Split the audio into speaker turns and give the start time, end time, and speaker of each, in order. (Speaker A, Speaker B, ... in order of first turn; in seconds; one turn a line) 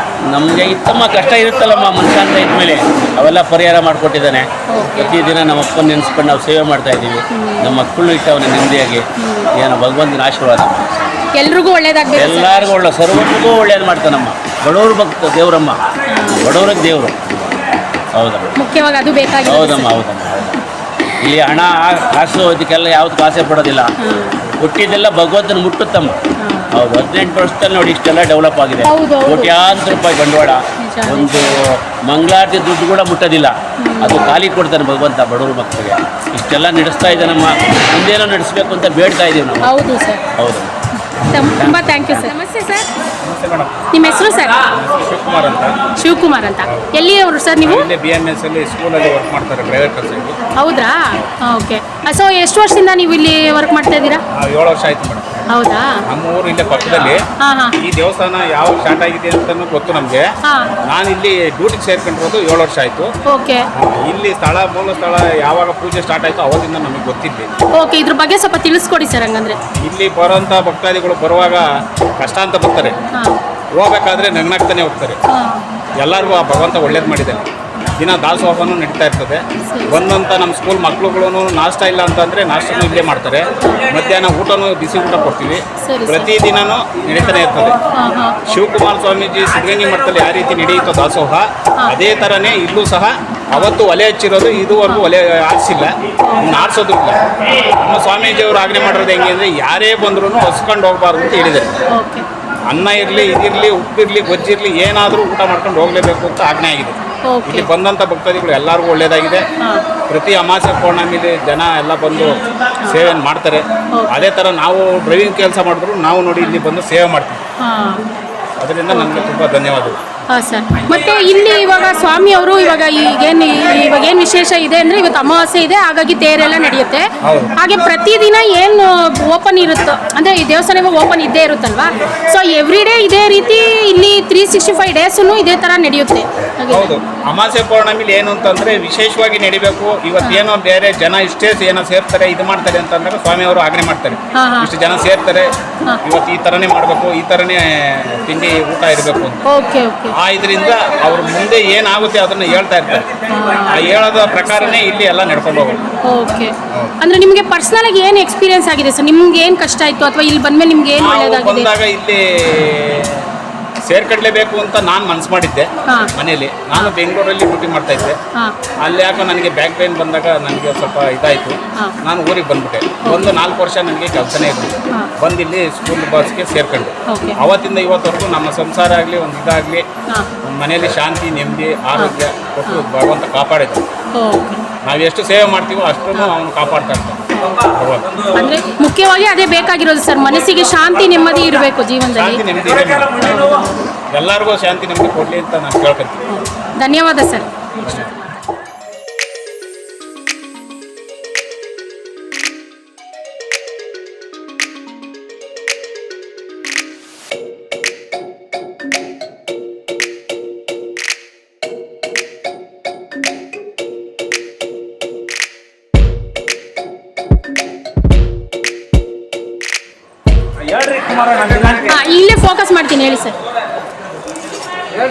Speaker A: 0.3-11.1
Speaker B: 4.7-5.1
Speaker B: 7.3-7.7
Speaker B: 9.2-9.5
Speaker B: 11.3-12.7
Speaker A: 12.1-15.8
Speaker B: 16.1-16.4
Speaker A: 16.3-17.6
Speaker A: 18.1-18.6
Speaker B: 18.6-19.9
Speaker A: 19.4-20.6
Speaker A: 21.1-23.9
Speaker B: 24.0-24.4
Speaker A: 24.5-26.2
Speaker B: 26.4-26.7
Speaker A: 26.7-39.8
Speaker B: 28.8-29.6
Speaker B: 30.8-31.4
Speaker B: 33.8-34.4
Speaker B: 39.6-40.2
Speaker A: 40.4-40.7
Speaker B: 41.1-42.9
Speaker A: 41.5-42.2
Speaker C: 43.2-43.9
Speaker B: 43.9-44.6
Speaker C: 44.7-45.8
Speaker B: 46.0-47.9
Speaker C: 47.6-50.4
Speaker B: 50.6-54.2
Speaker C: 54.3-55.4
Speaker B: 55.5-56.0
Speaker C: 56.1-57.2
Speaker B: 57.4-57.8
Speaker C: 57.8-60.3
Speaker B: 60.4-60.7
Speaker C: 60.8-63.1
Speaker B: 63.3-63.6
Speaker C: 63.7-67.5
Speaker B: 67.8-69.6
Speaker C: 69.7-71.7
Speaker C: 72.2-73.0
Speaker C: 73.8-75.2
Speaker B: 75.3-75.6
Speaker C: 76.0-87.8
Speaker B: 79.7-80.0
Speaker B: 85.8-86.3
Speaker B: 87.9-88.3
Speaker C: 88.5-101.7
Speaker B: 96.2-96.6
Speaker B: 101.9-102.2
Speaker C: 102.7-109.4
Speaker B: 107.2-107.7
Speaker C: 110.1-117.4
Speaker B: 117.6-118.0
Speaker C: 118.6-120.0
Speaker B: 118.9-119.3
Speaker B: 120.3-136.9
Speaker C: 127.2-127.5
Speaker C: 136.7-145.5
Speaker B: 144.3-144.7
Speaker C: 146.0-149.4
Speaker B: 149.4-150.1
Speaker C: 150.2-155.9
Speaker B: 153.2-154.8
Speaker B: 156.1-161.7
Speaker C: 160.9-163.3
Speaker C: 163.9-168.2
Speaker C: 168.8-179.8
Speaker B: 173.0-173.3
Speaker B: 177.1-177.4
Speaker C: 180.4-183.8
Speaker B: 184.1-184.6
Speaker C: 184.8-188.2
Speaker B: 187.3-187.6
Speaker B: 188.3-192.4
Speaker C: 192.1-193.2
Speaker B: 193.2-193.8
Speaker C: 194.1-196.3
Speaker B: 196.3-198.2
Speaker C: 197.8-198.1
Speaker C: 220.8-221.8
Speaker B: 221.7-223.3